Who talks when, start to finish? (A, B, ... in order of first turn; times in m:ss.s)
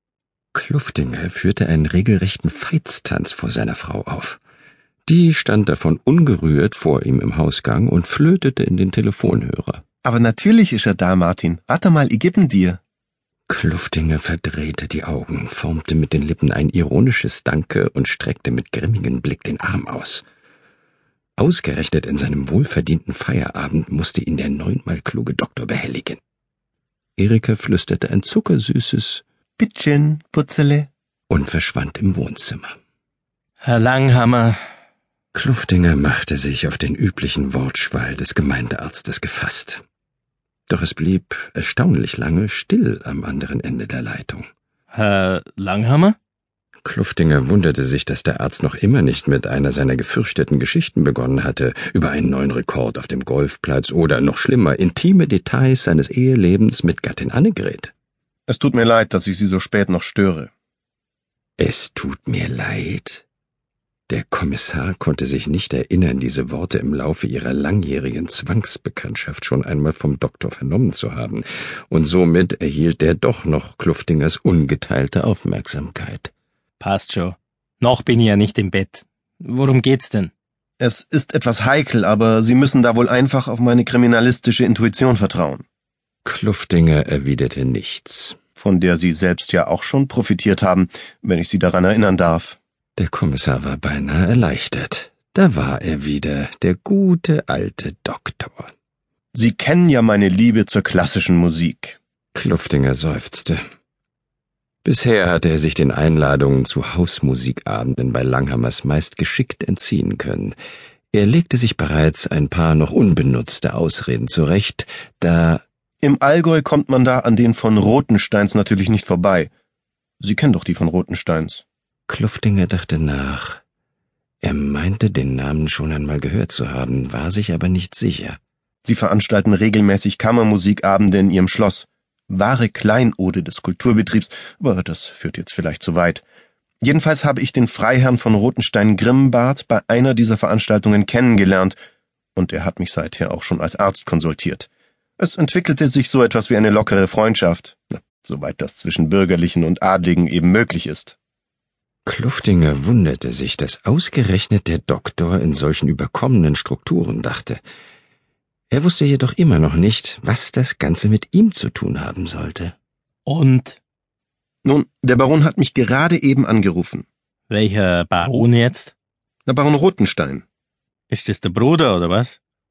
0:00.5-0:04.4 A
0:05.1-0:09.8 A
0:10.0-0:12.8 B
0:13.5-0:20.2 A
0:21.4-0:26.2 A
0:27.2-0:29.2 A
0:29.6-0:30.9 B
0:31.3-0:32.7 A
0:33.6-0:34.6 C
0:35.3-0:39.8 A
0:40.7-0:44.5 A
0:44.9-0:46.1 C
0:46.8-0:57.9 A
0:58.5-1:00.5 B
1:01.6-1:03.2 A
1:04.1-1:16.3 A
1:16.8-1:20.3 C
1:20.8-1:25.6 B
1:26.2-1:28.4 A
1:28.6-1:32.6 B
1:33.0-1:38.7 A
1:39.3-1:42.0 B
1:42.3-1:43.6 A
1:44.8-1:50.5 A
1:51.1-1:55.6 A
1:56.0-1:59.5 B
2:00.2-2:01.6 B
2:02.1-2:03.6 A
2:04.4-2:08.4 A
2:08.8-2:16.2 B
2:16.8-2:21.8 B
2:22.3-2:24.7 B
2:25.2-2:31.2 B
2:32.0-2:37.6 A
2:38.7-2:42.7 A
2:43.2-2:43.8 C
2:44.6-2:47.0 B
2:47.5-2:48.9 C
2:49.4-2:50.4 B
2:51.1-2:52.4 C